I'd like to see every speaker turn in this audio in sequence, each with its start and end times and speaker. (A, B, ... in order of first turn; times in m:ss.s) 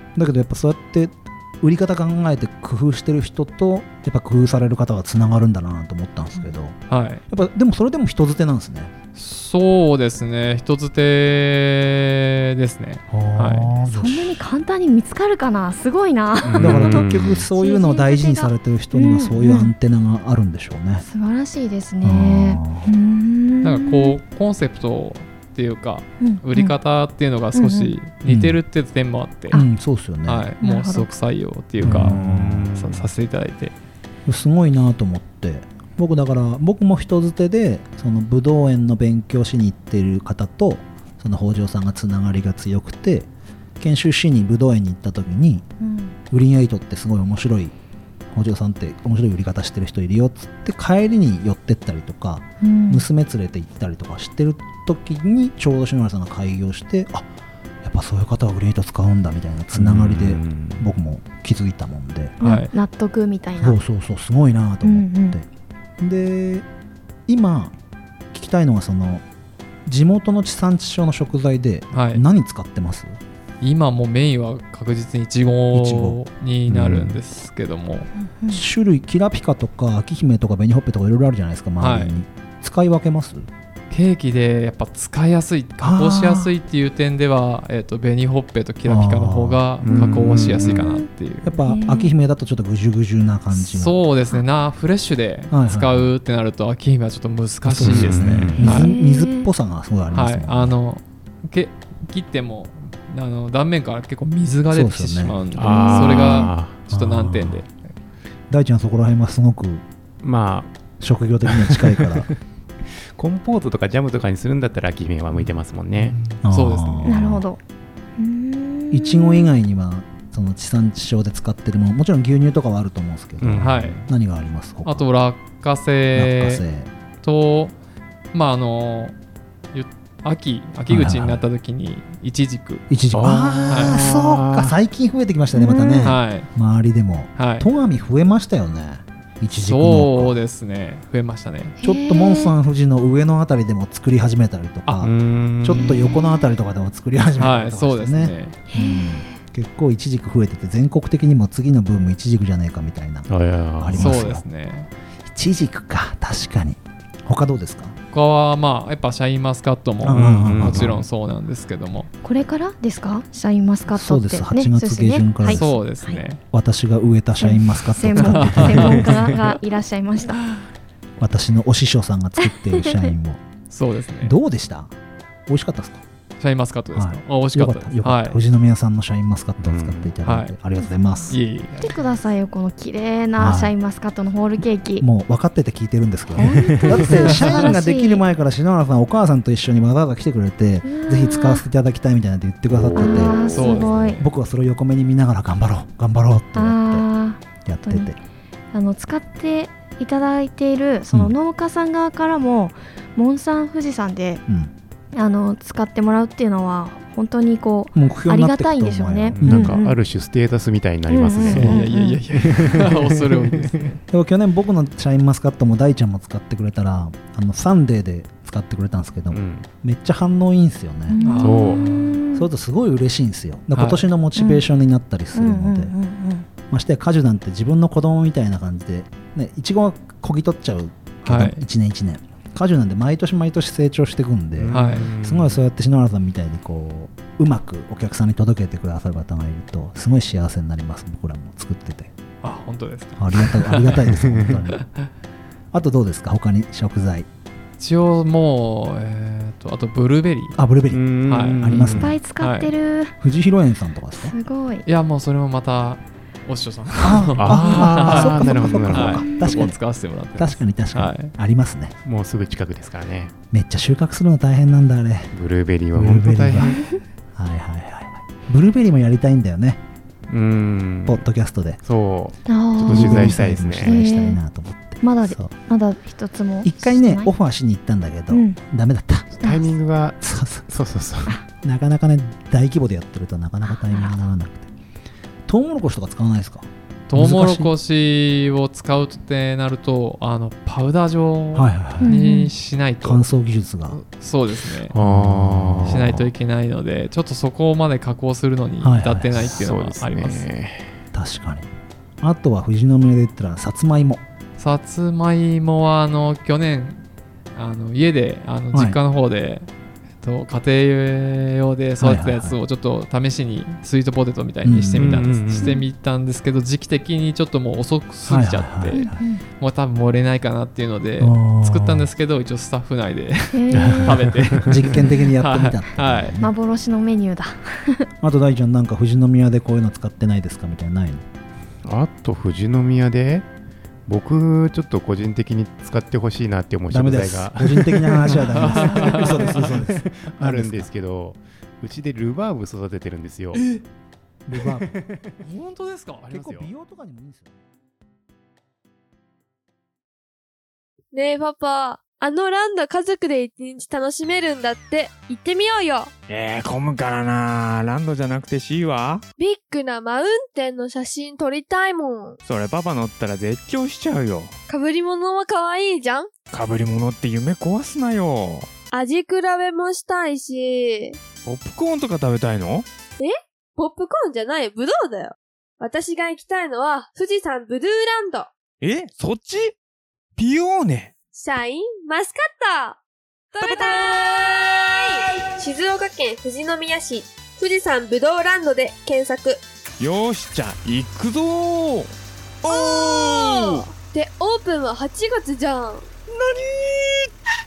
0:00.1-0:06.8 A
0:06.9-0:07.2 B
0:07.3-0:08.9 A
0:09.2-0:13.7 B
0:13.1-0:14.4 A
0:13.9-0:19.7 C
0:16.4-0:17.4 D
0:16.6-0:21.0 A
0:21.0-0:24.2 C
0:22.0-0:22.9 A
0:23.6-0:29.6 B
0:26.2-0:26.7 C
0:27.5-0:27.9 C
0:28.2-0:28.6 A
0:29.5-0:30.5 A
0:30.2-0:32.2 B
0:30.6-0:31.1 C
0:31.8-0:33.1 D
0:31.8-0:32.7 A
0:32.7-0:33.7 B
0:34.2-0:45.6 A
0:45.8-0:46.1 C
0:46.3-0:47.8 A
0:48.3-0:57.3 A
0:52.6-0:53.0 C
0:57.8-1:02.4 A
0:59.7-1:00.8 D
1:02.4-1:03.8 C
1:02.4-1:02.7 B
1:03.6-1:05.5 A
1:04.8-1:05.4 C
1:06.0-1:06.6 A
1:07.3-1:07.7 A
1:08.3-1:09.2 A
1:09.8-1:13.2 A
1:11.9-1:12.2 B
1:13.6-1:18.1 B
1:15.7-1:16.2 A
1:16.7-1:17.2 D
1:18.5-1:23.5 A
1:21.8-1:22.1 B
1:23.9-1:31.5 B
1:25.8-1:26.5 A
1:28.8-1:29.6 A
1:29.8-1:30.8 D
1:29.9-1:32.1 C
1:31.4-1:34.0 A
1:33.6-1:38.9 B
1:35.5-1:36.1 A
1:37.6-1:40.8 A
1:37.8-1:38.7 D
1:38.6-1:39.5 C
1:40.1-1:47.7 B
1:44.7-1:45.4 A
1:45.5-1:46.8 D
1:45.6-1:46.5 C
1:46.9-1:47.6 A
1:48.5-1:49.8 A
1:50.2-1:50.7 D
1:51.0-1:52.3 A
1:51.4-1:52.3 D
1:53.2-1:56.2 D
1:56.0-1:57.2 B
1:56.4-1:57.4 A
1:57.0-1:57.6 C
1:58.2-1:59.5 C
1:58.9-2:05.1 A
2:03.4-2:04.0 D
2:03.5-2:04.0 B
2:04.8-2:06.6 B
2:06.1-2:06.9 A
2:07.2-2:07.7 B
2:08.3-2:09.1 B
2:09.7-2:12.8 B
2:10.9-2:11.4 A
2:12.9-2:20.4 A
2:13.1-2:14.7 D
2:13.7-2:14.0 B
2:15.5-2:16.2 C
2:16.0-2:16.5 B
2:17.4-2:17.7 B
2:19.6-2:21.8 B
2:21.8-2:22.5 C
2:21.8-2:34.4 A
2:25.0-2:26.0 D
2:25.8-2:26.4 C
2:27.4-2:28.6 B
2:28.7-2:29.3 C
2:33.3-2:34.3 D
2:33.9-2:34.9 B
2:35.3-2:37.9 A
2:38.1-2:42.1 B
2:40.0-2:41.0 A
2:40.1-2:41.0 D
2:42.2-2:46.2 C
2:43.9-2:45.7 A
2:45.4-2:46.4 B
2:46.5-2:49.4 A
2:47.4-2:50.4 C
2:48.2-2:49.5 B
2:51.2-2:53.4 A
2:52.4-2:53.1 C
2:53.7-2:54.3 B
2:54.2-2:54.9 A
2:55.5-2:56.0 A
2:56.4-2:58.4 B
2:56.9-3:01.4 A
2:59.6-3:00.1 D
3:00.2-3:00.5 B
3:00.8-3:05.0 C
3:01.3-3:02.0 B
3:03.4-3:03.7 A
3:05.0-3:13.5 A
3:06.4-3:08.2 C
3:06.4-3:07.1 D
3:10.8-3:11.6 C
3:12.7-3:14.2 D
3:13.0-3:14.2 C
3:13.4-3:14.2 B
3:14.1-3:17.1 A
3:16.5-3:18.1 C
3:17.6-3:18.2 A
3:18.7-3:24.4 C
3:21.1-3:21.3 A
3:24.5-3:24.7 A
3:25.1-3:30.0 C
3:27.9-3:29.8 A
3:29.3-3:33.7 D
3:31.1-3:32.2 C
3:31.4-3:31.8 A
3:31.5-3:34.0 B
3:34.1-3:41.2 A
3:39.3-3:39.7 D
3:41.1-3:42.5 C
3:41.2-3:42.2 B
3:41.4-3:41.8 D
3:42.3-3:45.9 A
3:43.7-3:44.1 B
3:44.4-3:44.6 C
3:45.3-3:46.5 C
3:46.7-4:02.1 A
3:51.2-3:51.6 B
3:54.6-3:55.6 D
3:54.7-3:55.1 B
4:02.4-4:04.0 B
4:03.2-4:04.8 A
4:04.2-4:04.5 D
4:05.7-4:07.3 A
4:07.8-4:10.6 B
4:10.6-4:12.2 A
4:10.9-4:12.2 D
4:11.2-4:12.7 B
4:12.0-4:13.1 C
4:13.2-4:14.3 A
4:14.2-4:14.8 C
4:14.8-4:21.3 B
4:17.0-4:19.8 A
4:17.4-4:19.4 D
4:19.2-4:19.6 C
4:20.4-4:21.9 A
4:22.0-4:23.3 D
4:23.5-4:25.3 A
4:25.3-4:26.7 D
4:25.9-4:26.8 A
4:26.6-4:27.0 C
4:27.3-4:29.8 A
4:30.3-4:31.2 D
4:31.0-4:31.8 A
4:31.8-4:34.0 D
4:32.5-4:34.4 C
4:32.8-4:35.5 A
4:35.0-4:37.3 C
4:36.6-4:39.3 A
4:38.3-4:38.6 C
4:39.4-4:41.4 D
4:40.2-4:40.7 A
4:41.6-4:44.7 A
4:43.7-4:44.2 C
4:45.5-4:47.8 A
4:47.1-4:53.2 B
4:51.5-4:52.2 A
4:52.0-4:52.5 C
4:53.0-4:54.0 A
4:54.1-4:54.9 B
4:54.9-4:56.3 D
4:55.0-4:56.0 A
4:55.8-5:00.5 B
4:58.8-4:59.6 A
4:59.4-5:01.0 D
5:01.1-5:01.7 A
5:02.2-5:04.2 A
5:04.6-5:07.0 B
5:07.5-5:09.7 B
5:08.7-5:09.0 A
5:10.2-5:26.3 B
5:12.0-5:12.6 A
5:14.6-5:15.3 A
5:15.0-5:15.7 D
5:15.6-5:15.8 C
5:18.2-5:19.2 A
5:18.9-5:19.4 C
5:21.2-5:22.1 A
5:23.5-5:24.2 C
5:23.7-5:25.0 D
5:24.6-5:26.5 A
5:26.4-5:28.1 C
5:28.2-5:31.2 A
5:31.8-5:33.4 D
5:34.1-5:43.6 D
5:36.9-5:40.9 A
5:38.6-5:39.6 B
5:43.5-5:43.8 B
5:44.5-5:44.9 A
5:44.6-5:45.3 D
5:45.4-5:46.2 B
5:46.2-5:46.7 D
5:46.2-5:47.6 A
5:51.1-5:56.1 E
5:56.3-5:59.2 F
5:59.4-6:02.4 E
6:02.4-6:04.5 F
6:04.7-6:06.3 E
6:06.5-6:08.7 F
6:08.9-6:11.2 E
6:11.4-6:12.8 F
6:13.2-6:18.5 E
6:18.8-6:19.7 F
6:20.4-6:21.1 F
6:21.3-6:23.0 E
6:23.5-6:29.6 E
6:23.6-6:24.3 F
6:30.0-6:32.1 F
6:32.6-6:33.8 F
6:32.7-6:36.1 E
6:36.3-6:37.3 F